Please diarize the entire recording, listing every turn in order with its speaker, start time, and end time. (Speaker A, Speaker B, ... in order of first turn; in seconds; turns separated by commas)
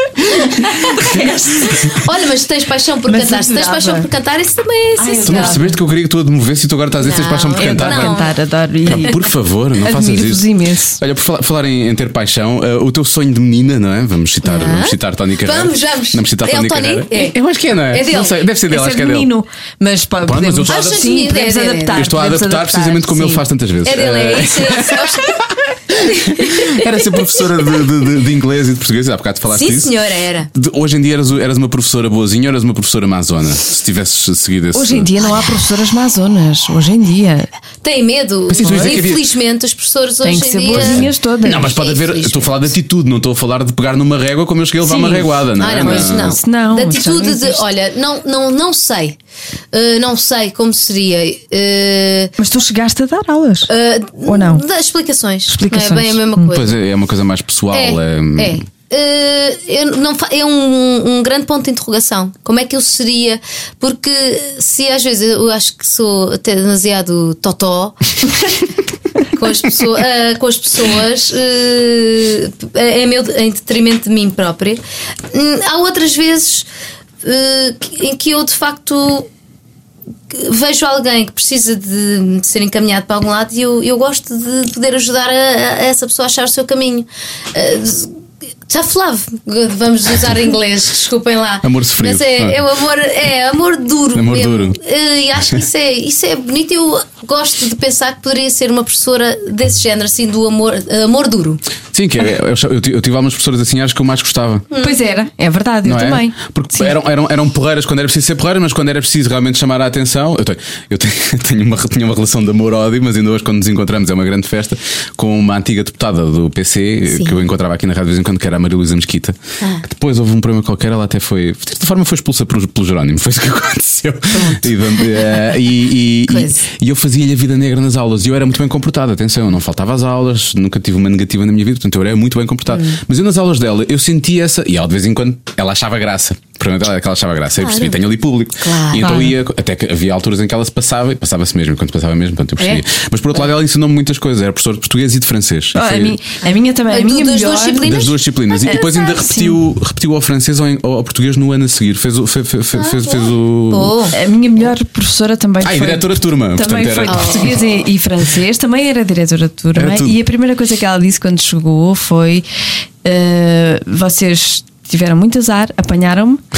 Speaker A: 0.2-1.9, Speaker B: 1.0-1.3, Speaker C: 1.7-5.6, Speaker A: 3.1-4.1, Speaker A: 5.0-5.8, Speaker B: 5.3-8.2, Speaker C: 7.0-8.3, Speaker A: 7.6-9.2, Speaker B: 8.9-10.5, Speaker A: 9.8-11.0, Speaker B: 11.0-19.3, Speaker C: 14.4-17.4, Speaker C: 17.9-18.4, Speaker A: 18.7-23.4, Speaker B: 20.2-21.1, Speaker C: 20.7-22.1, Speaker B: 21.9-25.3, Speaker C: 23.9-27.2, Speaker B: 25.9-29.9, Speaker C: 29.5-30.5, Speaker B: 30.5-35.1, Speaker A: 34.7-37.5, Speaker C: 37.8-42.7, Speaker B: 38.5-39.2, Speaker A: 38.6-39.0, Speaker A: 40.2-41.7, Speaker B: 40.7-46.4, Speaker A: 44.8-47.6, Speaker C: 45.6-49.2, Speaker C: 49.7-52.3, Speaker A: 52.4-53.7, Speaker C: 53.7-56.8, Speaker A: 54.2-54.6, Speaker A: 55.5-56.5, Speaker B: 56.5-58.6, Speaker C: 57.7-68.4, Speaker C: 69.2-76.7, Speaker C: 77.2-79.3, Speaker C: 80.3-88.2, Speaker C: 88.7-101.6, Speaker B: 91.6-92.6, Speaker B: 94.1-94.8, Speaker B: 101.9-104.7, Speaker C: 104.7-105.0, Speaker A: 104.8-106.4, Speaker B: 105.8-146.2, Speaker C: 124.3-124.7, Speaker C: 126.3-126.7, Speaker C: 132.7-133.0, Speaker C: 137.6-138.0, Speaker C: 138.6-139.1, Speaker A: 139.0-139.3, Speaker A: 145.7-148.0, Speaker C: 146.9-149.1, Speaker B: 147.8-154.0, Speaker A: 148.6-149.6, Speaker C: 152.8-154.2, Speaker A: 154.1-162.4, Speaker B: 155.6-157.6, Speaker C: 157.1-157.6, Speaker B: 159.8-160.2, Speaker A: 163.0-166.4